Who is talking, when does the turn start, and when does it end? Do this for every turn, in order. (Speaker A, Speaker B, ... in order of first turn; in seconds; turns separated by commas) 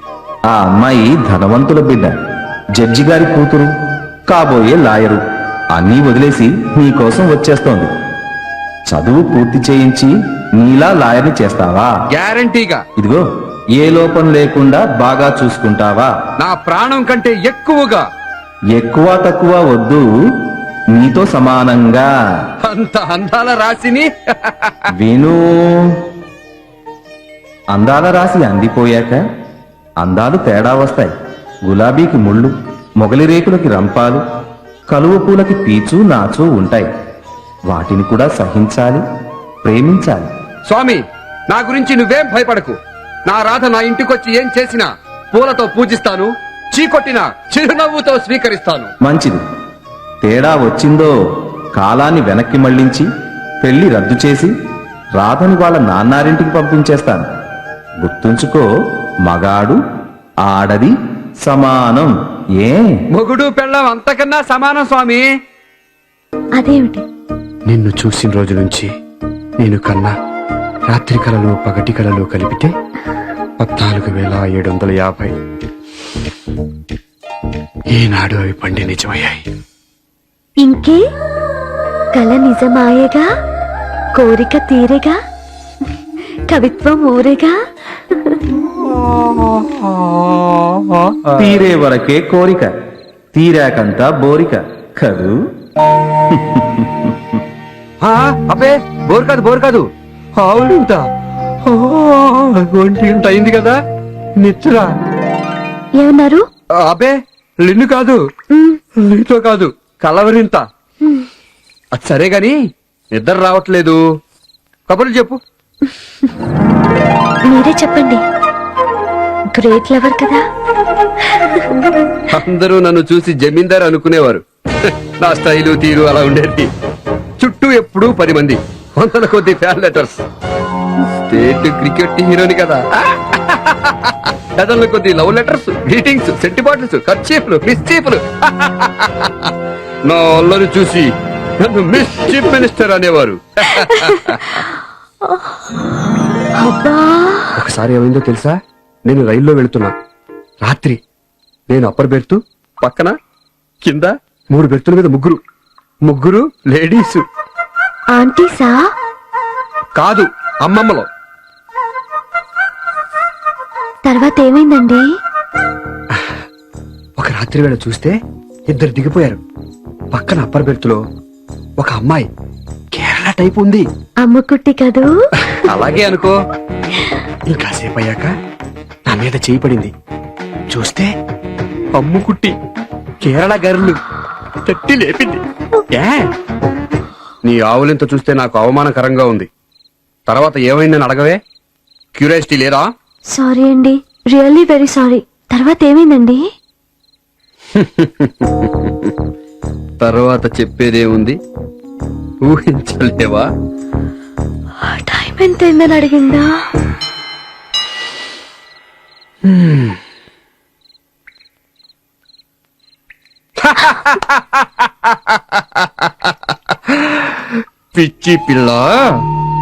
Speaker A: 0.5-2.1, Speaker A: 2.8-3.7, Speaker A: 4.3-5.2, Speaker A: 5.7-7.9, Speaker A: 8.9-11.9, Speaker B: 12.1-12.8, Speaker A: 13.8-16.1, Speaker B: 16.4-18.1, Speaker A: 18.7-20.1, Speaker A: 20.9-22.1, Speaker B: 22.6-24.9, Speaker A: 24.9-25.9, Speaker A: 27.7-29.2, Speaker A: 30.0-31.1, Speaker A: 31.6-34.2, Speaker A: 34.9-36.9, Speaker A: 37.7-39.0, Speaker A: 39.6-40.3, Speaker B: 40.6-42.8, Speaker B: 43.3-48.9, Speaker A: 49.0-49.4, Speaker A: 50.2-51.1, Speaker A: 51.8-53.0, Speaker A: 53.6-54.5, Speaker A: 55.2-57.3, Speaker A: 58.0-58.6, Speaker A: 59.2-59.8, Speaker A: 60.4-62.9, Speaker B: 63.1-65.3, Speaker C: 66.6-67.0, Speaker B: 67.7-68.9, Speaker B: 69.6-70.1, Speaker B: 70.9-72.7, Speaker B: 73.6-75.3, Speaker B: 77.9-79.4, Speaker C: 80.6-81.0, Speaker C: 82.2-83.2, Speaker C: 84.2-85.1, Speaker C: 86.5-87.5, Speaker C: 88.1-88.4, Speaker B: 88.7-91.5, Speaker A: 91.4-92.7, Speaker A: 93.3-95.4, Speaker A: 96.3-97.4, Speaker B: 98.0-101.0, Speaker B: 101.6-103.8, Speaker B: 104.4-104.9, Speaker C: 106.0-106.5, Speaker B: 106.8-108.2, Speaker C: 108.5-108.8, Speaker B: 109.0-110.6, Speaker B: 111.9-112.5, Speaker B: 113.1-114.0, Speaker B: 114.9-115.4, Speaker C: 117.5-118.2, Speaker C: 119.5-120.4, Speaker C: 121.3-121.6, Speaker B: 122.3-126.7, Speaker B: 127.4-130.2, Speaker B: 131.2-139.5, Speaker B: 140.0-144.6, Speaker C: 143.8-144.1, Speaker C: 145.2-145.6, Speaker C: 146.6-147.5, Speaker B: 147.6-149.9, Speaker B: 150.6-151.0, Speaker B: 151.7-153.1, Speaker B: 153.8-155.4, Speaker B: 156.0-157.2, Speaker C: 158.1-158.8, Speaker B: 159.9-161.1, Speaker C: 164.0-165.0, Speaker B: 167.2-168.2, Speaker B: 168.7-169.4, Speaker B: 170.1-171.0, Speaker B: 171.8-172.3, Speaker B: 172.9-173.8, Speaker C: 174.2-175.1, Speaker B: 175.5-176.3, Speaker B: 177.5-178.3, Speaker B: 179.1-179.9, Speaker B: 180.7-181.1, Speaker B: 181.9-182.5, Speaker B: 183.2-184.0, Speaker B: 184.6-186.3, Speaker B: 187.4-189.5, Speaker B: 190.3-191.4, Speaker B: 192.1-192.9, Speaker C: 193.3-196.4, Speaker B: 197.7-199.1, Speaker B: 200.0-201.4, Speaker B: 202.4-203.5, Speaker C: 204.8-206.5, Speaker B: 209.4-210.0, Speaker B: 213.6-218.9